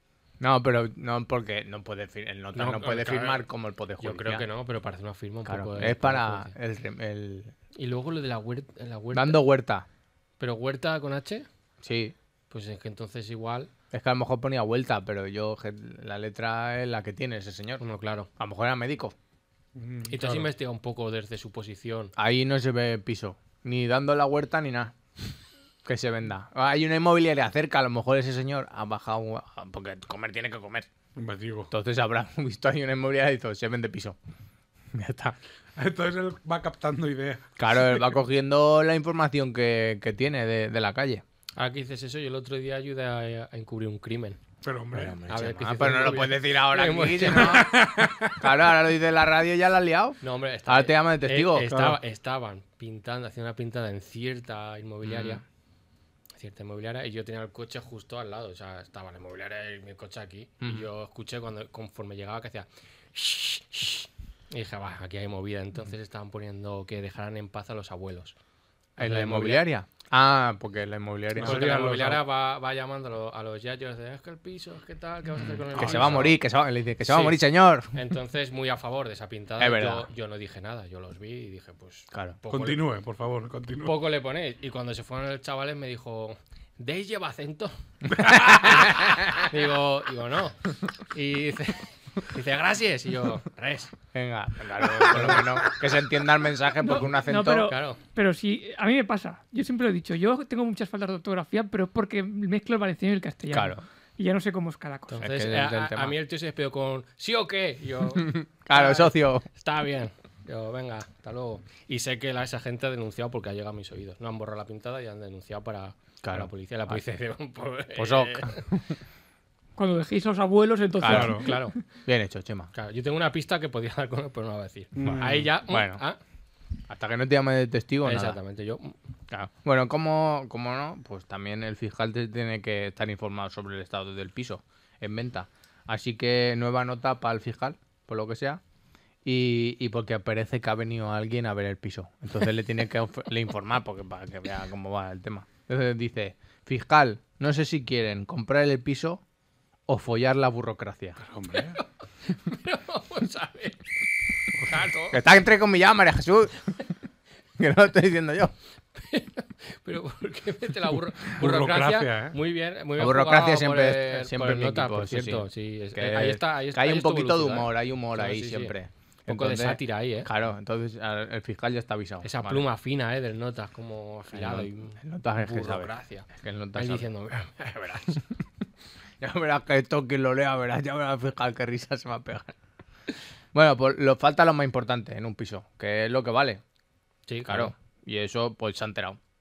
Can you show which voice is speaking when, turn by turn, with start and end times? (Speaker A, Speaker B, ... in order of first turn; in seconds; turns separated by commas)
Speaker A: 0.4-4.5, Speaker B: 2.5-3.4, Speaker B: 4.0-6.5, Speaker A: 5.5-7.5, Speaker B: 7.8-9.4, Speaker A: 9.1-9.8, Speaker B: 10.4-11.5, Speaker A: 11.8-12.1, Speaker B: 12.5-13.7, Speaker A: 13.9-17.8, Speaker B: 17.8-18.3, Speaker A: 18.4-19.1, Speaker C: 19.8-20.5, Speaker B: 20.1-22.1, Speaker A: 22.1-24.9, Speaker A: 25.8-30.9, Speaker C: 31.1-31.7, Speaker A: 31.7-34.2, Speaker A: 34.9-35.4, Speaker C: 35.8-38.0, Speaker A: 37.6-41.2, Speaker B: 41.5-44.4, Speaker C: 44.6-45.2, Speaker A: 44.9-51.8, Speaker B: 45.3-47.6, Speaker C: 47.3-48.5, Speaker B: 50.2-55.4, Speaker C: 51.7-52.0, Speaker A: 55.0-55.4, Speaker B: 56.4-68.3, Speaker A: 60.6-60.9, Speaker B: 69.0-69.7, Speaker A: 69.0-71.7, Speaker C: 71.3-72.2, Speaker B: 71.4-76.4, Speaker A: 75.4-77.9, Speaker C: 75.7-76.3, Speaker B: 77.0-77.4, Speaker B: 77.9-82.8, Speaker A: 79.6-80.1, Speaker A: 82.1-82.4, Speaker C: 82.5-84.0, Speaker B: 83.8-93.9, Speaker A: 88.2-89.4, Speaker A: 94.1-97.7, Speaker B: 94.9-95.8, Speaker D: 96.8-105.2, Speaker B: 97.6-98.0, Speaker A: 103.5-103.8, Speaker B: 105.1-118.6, Speaker A: 105.2-106.2, Speaker A: 108.2-109.5, Speaker A: 116.2-117.0, Speaker A: 118.0-118.9, Speaker D: 119.8-121.7, Speaker A: 121.0-121.4, Speaker C: 121.1-121.4, Speaker B: 121.2-121.8, Speaker A: 122.0-122.7, Speaker B: 122.7-126.2, Speaker C: 124.9-125.5, Speaker A: 125.5-126.0, Speaker A: 126.9-128.4, Speaker B: 128.0-128.9, Speaker A: 129.3-138.6, Speaker A: 139.2-149.2, Speaker A: 149.9-151.2, Speaker C: 151.2-151.8, Speaker B: 151.5-153.9, Speaker B: 154.6-155.2, Speaker A: 155.1-156.8, Speaker A: 157.6-158.5, Speaker B: 158.9-168.7, Speaker C: 161.2-162.4, Speaker A: 163.0-172.6, Speaker B: 169.3-170.3, Speaker B: 172.2-178.2, Speaker A: 174.3-177.1, Speaker A: 179.2-182.5, Speaker A: 183.5-186.6, Speaker B: 187.3-187.7, Speaker A: 187.5-189.2